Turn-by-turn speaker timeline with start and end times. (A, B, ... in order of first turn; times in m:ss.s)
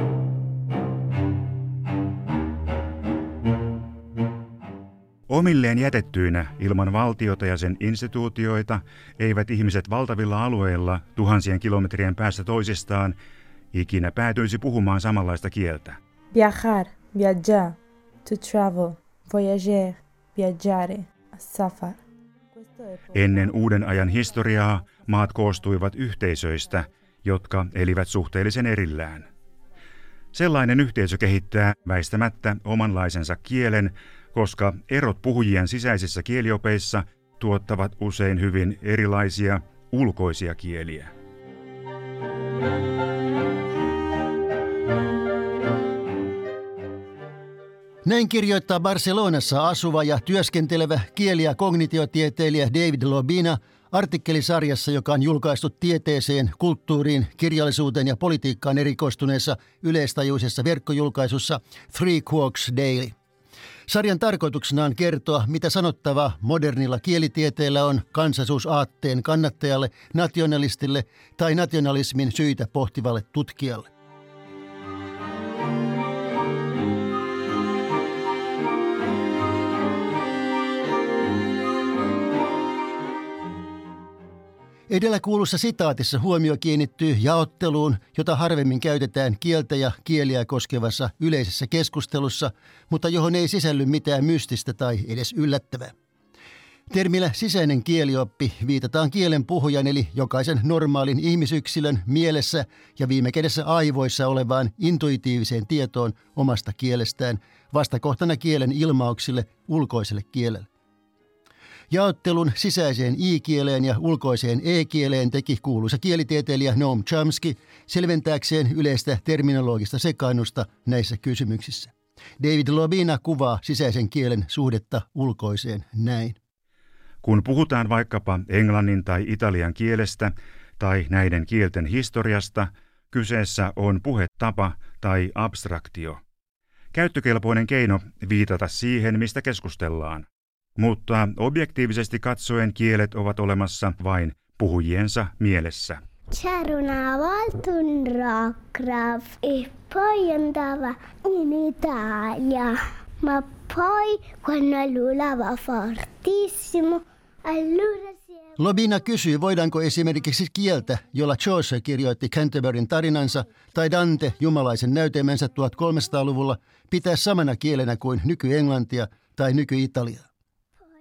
0:05.3-0:13.2 A
0:13.7-0:16.0 A
0:16.3-0:22.0 B
0:22.5-0:23.1 B
0:23.1-0:29.3 A
0:30.3-0:41.1 A
0:48.0-1:03.1 C
1:03.9-1:13.9 C
1:24.9-1:35.9 C
1:36.9-1:50.7 C
1:51.9-2:06.4 C
2:07.2-2:16.2 A
2:16.9-2:20.3 A
2:20.8-2:26.0 A
2:26.3-2:38.4 D
2:38.6-2:50.2 C